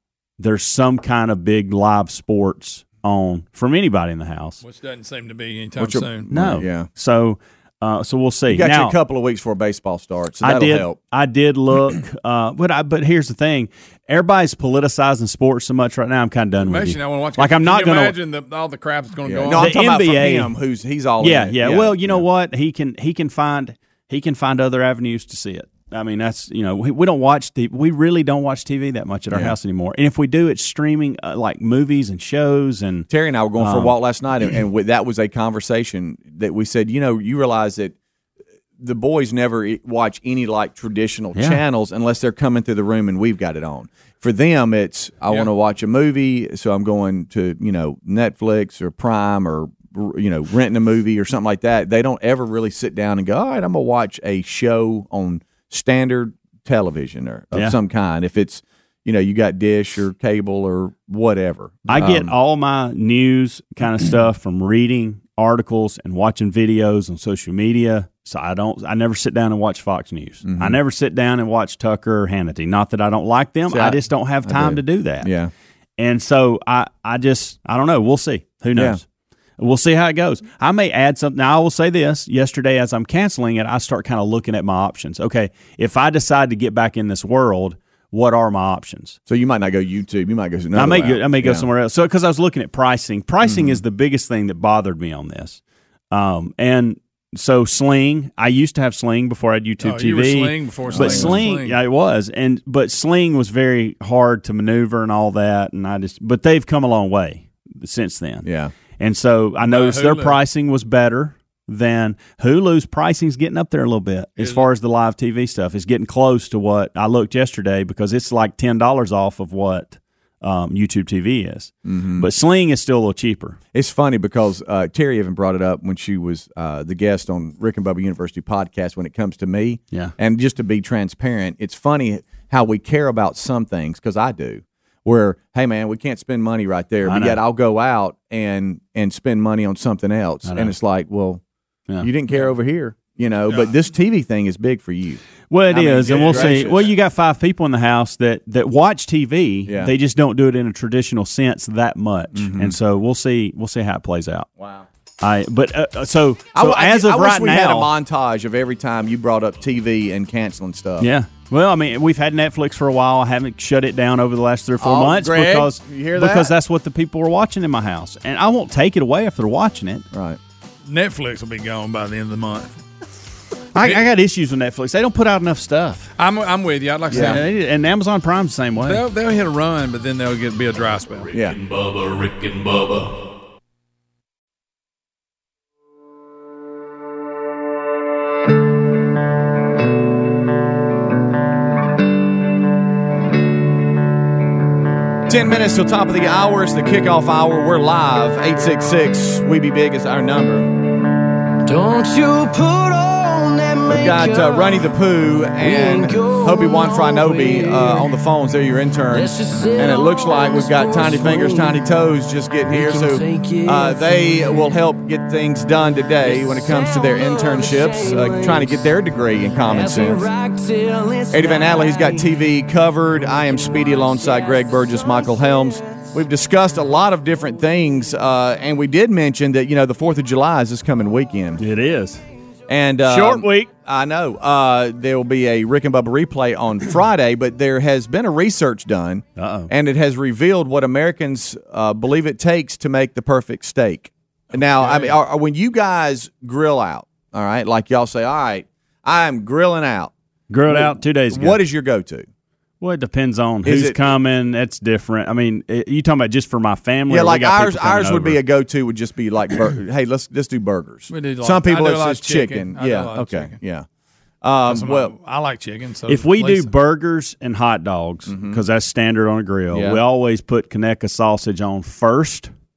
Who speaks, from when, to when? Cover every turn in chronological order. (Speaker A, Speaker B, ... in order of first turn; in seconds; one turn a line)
Speaker A: 0.4-4.6
Speaker B: 4.6-6.3
Speaker C: 5.8-6.9
Speaker A: 6.3-9.0
Speaker C: 8.5-11.0
Speaker A: 10.4-18.2
Speaker B: 16.6-19.9
Speaker C: 19.2-22.2
Speaker A: 19.5-20.5
Speaker A: 21.2-33.9
Speaker C: 33.1-37.9
Speaker C: 38.8-62.3
Speaker A: 41.4-41.6
Speaker A: 61.9-75.3
Speaker C: 70.4-70.8
Speaker C: 73.7-75.5
Speaker A: 76.0-79.0
Speaker C: 78.8-79.0
Speaker A: 79.6-89.2
Speaker C: 89.3-91.7
Speaker A: 90.8-108.5
Speaker C: 93.4-93.8
Speaker B: 99.8-101.8
Speaker C: 100.9-101.4
Speaker C: 108.4-108.7
Speaker A: 109.0-123.6
Speaker B: 109.6-110.4
Speaker B: 114.4-114.7
Speaker C: 121.8-122.3
Speaker C: 123.7-141.4
Speaker A: 137.1-137.4
Speaker A: 140.4-140.8
Speaker C: 142.0-146.9
Speaker A: 145.5-154.5
Speaker B: 146.1-146.6
Speaker C: 149.7-149.9
Speaker C: 152.3-152.8
Speaker C: 154.6-154.8
Speaker A: 155.2-157.9
Speaker C: 156.6-161.1
Speaker A: 161.0-170.1
Speaker C: 164.8-166.5
Speaker C: 170.1-170.4
Speaker B: 170.9-172.7
Speaker A: 173.8-176.1
Speaker B: 176.2-177.4
Speaker C: 177.1-177.4
Speaker A: 177.1-179.0
Speaker B: 178.8-181.3
Speaker D: 181.2-183.2
Speaker C: 195.3-200.7
Speaker E: 201.6-205.0
Speaker C: 203.9-220.3
Speaker E: 205.6-208.2
Speaker E: 209.1-211.9
Speaker E: 212.7-214.7
Speaker E: 216.2-218.9
Speaker E: 219.6-222.4
Speaker C: 221.3-231.6
Speaker E: 223.2-226.1
Speaker A: 231.6-232.2
Speaker C: 232.7-250.1
Speaker A: 233.0-233.7
Speaker A: 239.4-239.7
Speaker B: 244.6-245.2
Speaker A: 250.5-251.6
Speaker C: 250.7-252.3
Speaker A: 252.8-258.4
Speaker C: 253.6-254.0
Speaker C: 257.1-263.9
Speaker B: 261.1-263.6
Speaker C: 264.4-265.1
Speaker B: 264.7-266.7
Speaker A: 266.1-272.5
Speaker C: 268.3-268.6
Speaker C: 269.7-270.0